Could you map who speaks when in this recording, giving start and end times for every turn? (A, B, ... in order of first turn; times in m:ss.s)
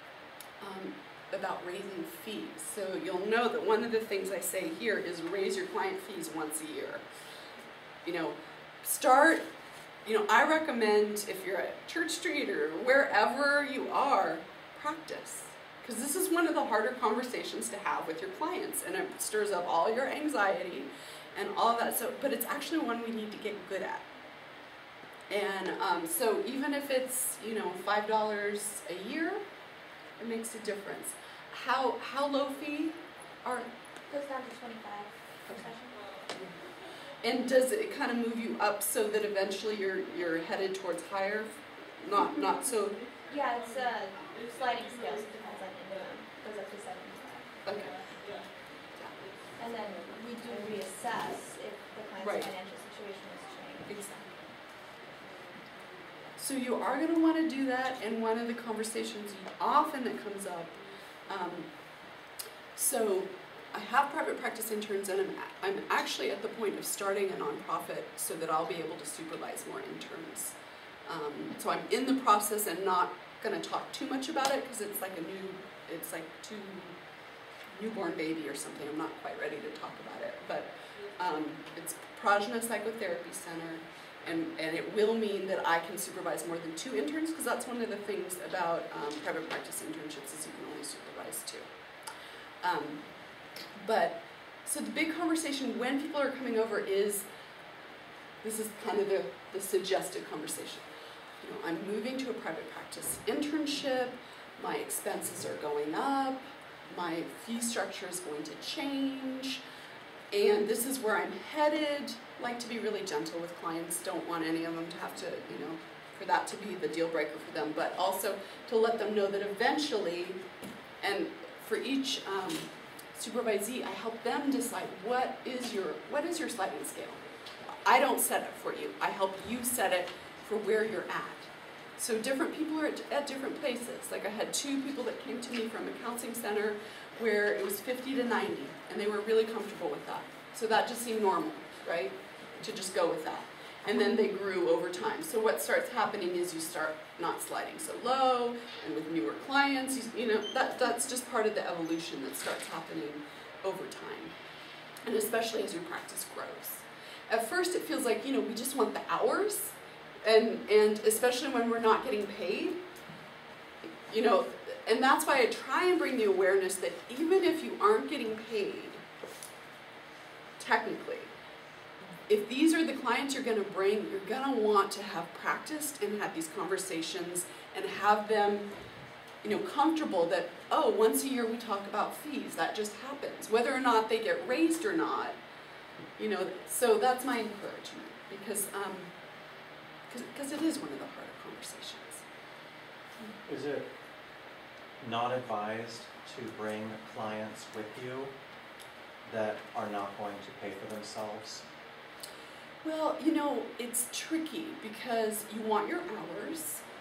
0:00.6-0:07.0 A
0:08.0-0:09.5 A
0:10.0-0:24.1 A
0:25.3-0:29.4 A
0:30.2-0:33.7 A
0:34.1-0:36.2 B
0:37.2-0:43.0 A
0:43.3-0:47.6 B
0:47.6-0:48.0 A
0:49.6-0:54.1 B
0:52.2-0:52.5 A
0:53.8-0:54.3 A
0:56.4-1:01.7 A
1:02.8-1:17.0 A
1:17.7-1:31.7 A
1:32.6-1:33.1 A
1:33.7-1:37.3 A
1:38.4-1:40.8 A
1:41.4-1:49.6 A
1:50.3-2:00.4 A
2:01.0-2:34.3 A
2:35.0-2:42.8 A
2:44.1-2:49.0 A
2:50.6-2:51.3 A
2:52.3-2:58.7 A
2:59.4-3:05.4 A
3:06.2-3:09.1 A
3:10.1-3:12.2 A
3:13.4-3:13.9 C
3:15.0-3:18.3 C
3:19.2-3:21.6 C
3:22.8-3:26.8 A